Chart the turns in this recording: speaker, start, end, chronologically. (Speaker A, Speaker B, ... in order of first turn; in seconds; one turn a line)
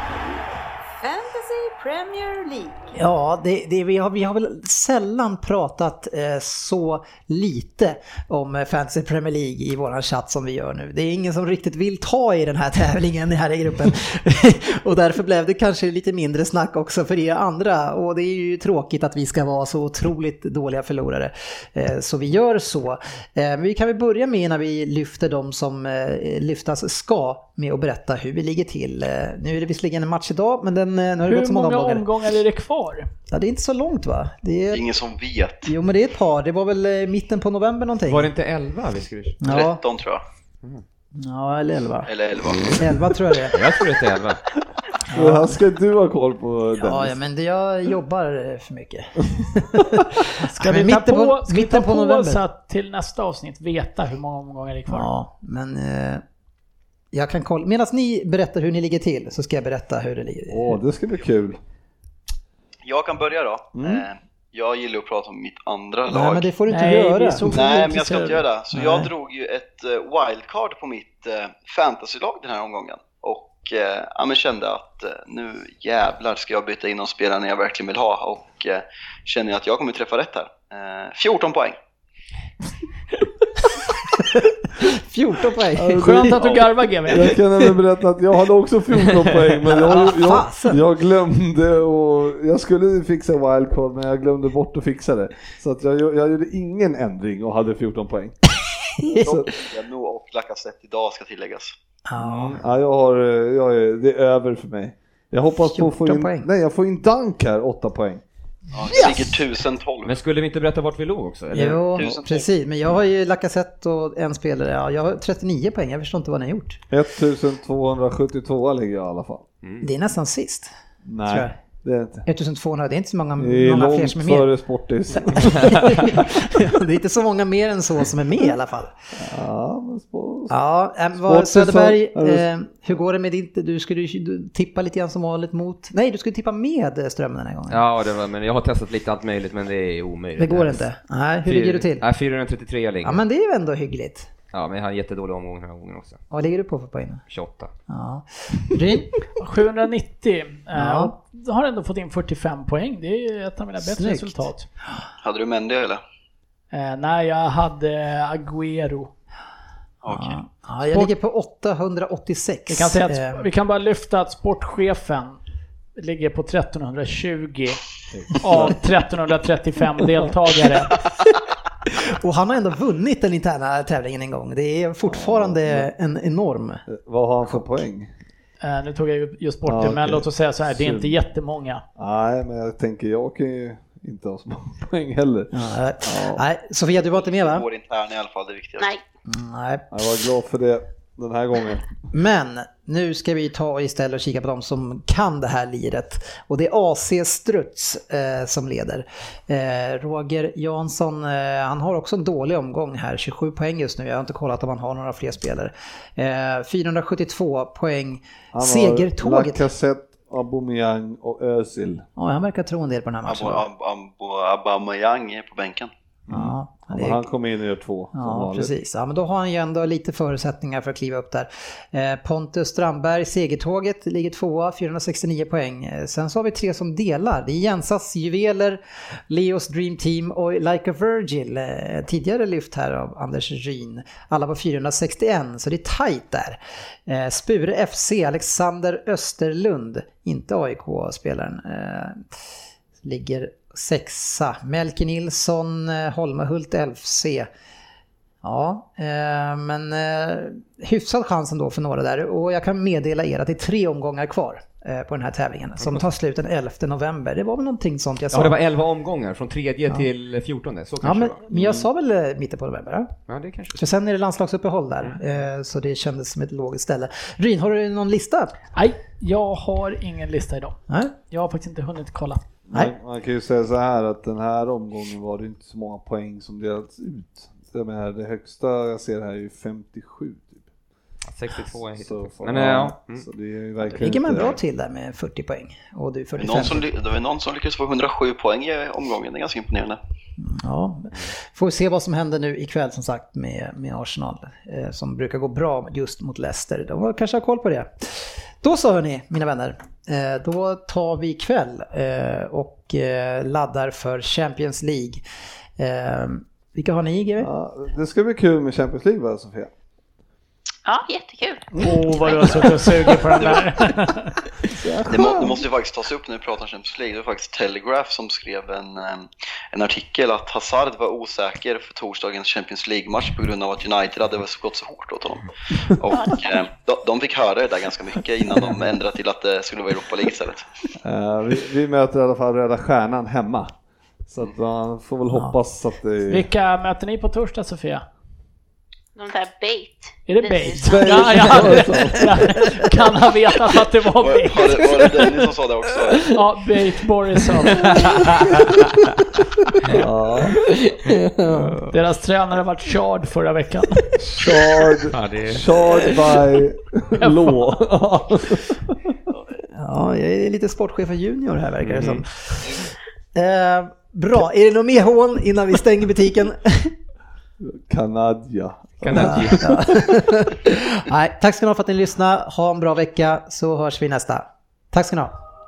Speaker A: 1.0-3.0
Speaker B: 2.9-32.1
Speaker C: 31.2-33.1
Speaker B: 33.3-34.8
Speaker D: 34.7-35.7
Speaker B: 35.6-38.3
Speaker E: 38.0-39.4
Speaker B: 39.4-39.8
Speaker D: 39.4-40.2
Speaker B: 41.1-42.1
Speaker D: 42.0-42.8
Speaker B: 42.8-43.6
Speaker E: 43.5-44.4
Speaker B: 45.1-45.6
Speaker F: 45.1-47.2
Speaker B: 46.8-52.4
Speaker C: 50.4-55.1
Speaker B: 54.9-56.2
Speaker B: 57.1-60.8
Speaker F: 60.5-61.6
Speaker D: 62.8-66.5
Speaker F: 63.7-64.0
Speaker B: 66.1-67.6
Speaker C: 66.7-68.5
Speaker D: 67.5-81.8
Speaker B: 68.7-69.1
Speaker B: 84.2-86.4
Speaker F: 85.7-98.3
Speaker C: 85.9-87.3
Speaker B: 89.6-90.8
Speaker B: 99.0-99.3
Speaker F: 99.0-99.5
Speaker D: 99.2-101.7
Speaker B: 102.0-102.6
Speaker F: 102.2-108.2
Speaker B: 105.6-106.5
Speaker D: 108.7-110.1
Speaker B: 108.9-109.4
Speaker E: 110.0-111.8
Speaker B: 111.5-116.8
Speaker D: 111.9-112.5
Speaker F: 116.9-119.5
Speaker B: 119.8-120.7
Speaker F: 121.0-122.2
Speaker B: 121.2-121.6
Speaker B: 122.2-124.5
Speaker F: 123.4-126.4
Speaker B: 125.1-128.9
Speaker F: 129.2-130.5
Speaker B: 130.5-137.8
Speaker F: 131.2-132.9
Speaker E: 137.7-140.8
Speaker B: 140.4-142.0
Speaker E: 141.4-143.2
Speaker B: 143.0-144.3
Speaker E: 144.5-146.2
Speaker B: 146.3-147.2
Speaker E: 147.3-147.7
Speaker B: 147.9-149.2
Speaker C: 149.3-154.7
Speaker B: 150.7-151.1
Speaker B: 153.8-155.0
Speaker D: 155.2-156.0
Speaker C: 156.7-159.1
Speaker D: 160.0-160.4
Speaker B: 160.1-163.4
Speaker C: 162.7-165.4
Speaker C: 165.9-167.8
Speaker F: 168.1-168.8
Speaker C: 168.3-170.9
Speaker B: 171.8-176.8
Speaker F: 175.1-175.9
Speaker F: 176.9-178.1
Speaker C: 178.6-181.8
Speaker F: 179.6-181.2
Speaker F: 182.0-186.4
Speaker B: 185.5-187.6
Speaker D: 187.2-188.9
Speaker B: 189.3-189.9
Speaker F: 189.9-191.9
Speaker B: 192.1-209.6
Speaker F: 208.5-212.0
Speaker B: 212.2-213.6
Speaker D: 213.2-215.9
Speaker F: 216.3-218.7
Speaker B: 216.3-217.3
Speaker B: 218.1-242.2
Speaker B: 243.0-247.5
Speaker B: 248.4-258.6
Speaker E: 258.3-261.8
Speaker B: 261.0-263.1
Speaker E: 263.3-263.9
Speaker B: 263.8-268.5
Speaker C: 268.8-270.8
Speaker C: 271.3-272.4
Speaker F: 272.7-280.7
Speaker E: 281.3-283.2
Speaker F: 282.0-284.6
Speaker B: 283.8-286.9
Speaker D: 286.4-290.0
Speaker B: 290.4-305.2
Speaker B: 305.8-307.5
Speaker F: 307.4-309.7
Speaker G: 310.9-312.7
Speaker C: 311.8-314.4
Speaker D: 313.4-313.6
Speaker F: 314.7-315.6
Speaker D: 315.1-330.6
Speaker G: 326.1-326.6
Speaker F: 331.0-333.7
Speaker F: 334.3-336.5
Speaker C: 336.3-338.1
Speaker G: 339.1-341.8
Speaker C: 340.3-345.2
Speaker F: 340.8-342.4
Speaker D: 344.2-346.3
Speaker C: 346.3-348.3
Speaker E: 347.8-348.5
Speaker F: 349.9-350.6
Speaker B: 351.4-351.8
Speaker C: 351.9-354.1
Speaker F: 354.2-358.9
Speaker E: 355.1-355.7
Speaker C: 357.2-357.6
Speaker B: 359.7-366.9
Speaker E: 361.8-362.2
Speaker F: 367.6-370.2
Speaker E: 369.0-369.7
Speaker B: 369.1-375.3